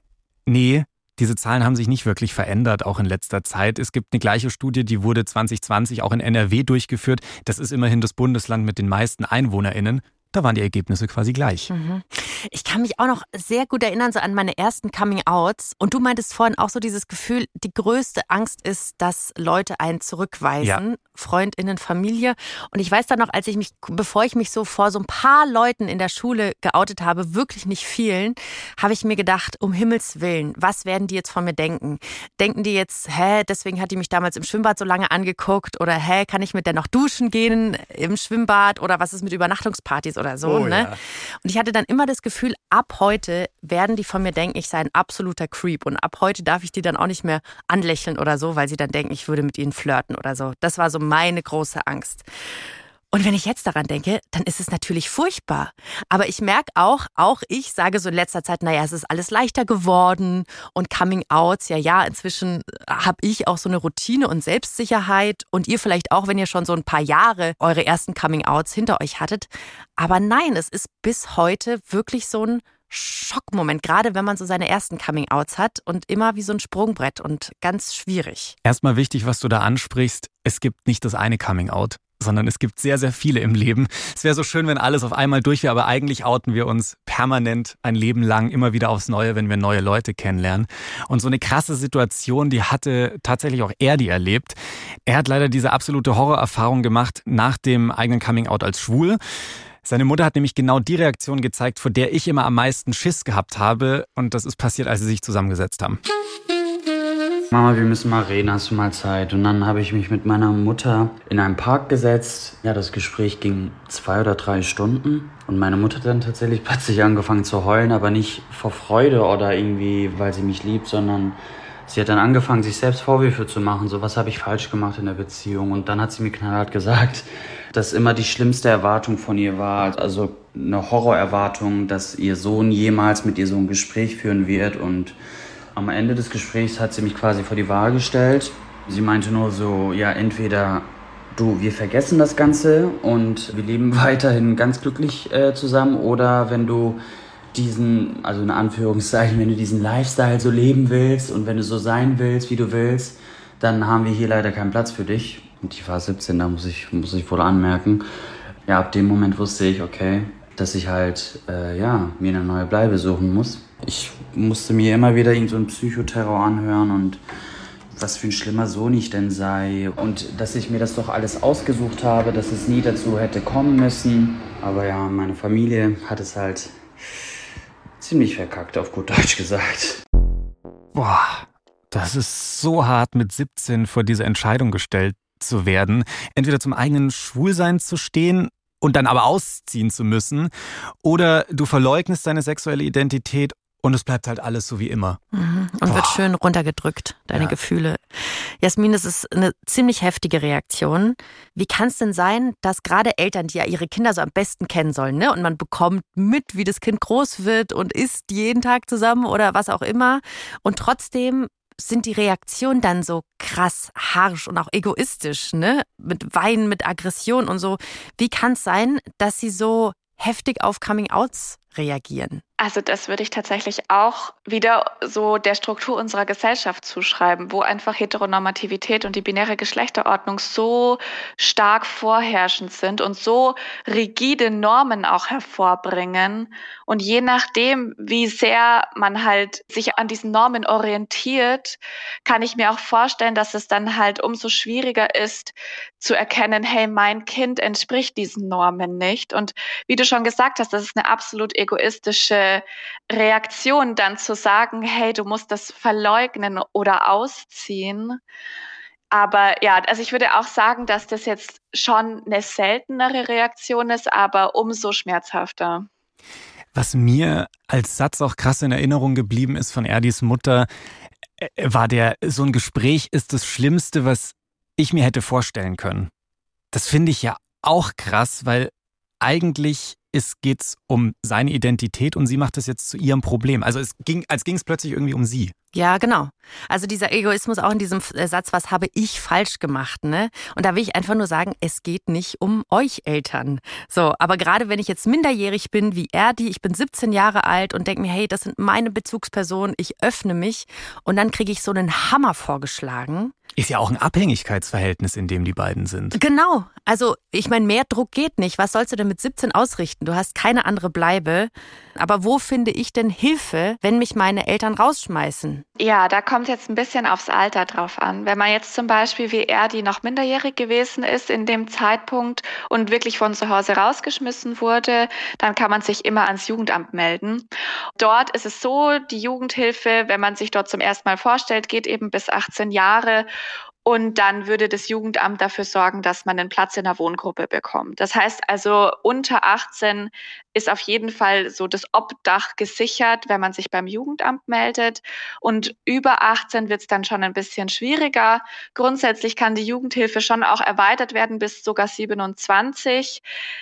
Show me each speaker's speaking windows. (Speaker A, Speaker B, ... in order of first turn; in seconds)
Speaker A: 0.5-11.7, 40.4-41.0, 78.6-99.2, 99.8-106.0, 180.9-190.5, 191.0-195.2, 195.9-196.2, 266.7-270.7, 271.4-276.1, 276.7-285.5, 303.6-306.2
Speaker B: 11.7-40.9, 41.4-52.2, 53.1-78.5, 195.3-222.4, 285.7-303.3, 306.1-315.6
Speaker C: 107.5-135.2, 135.7-147.0, 147.5-158.0, 158.7-167.2, 167.9-176.8, 178.0-180.0
Speaker D: 222.6-258.2, 259.1-265.9, 315.8-327.5, 328.0-333.3, 333.9-353.2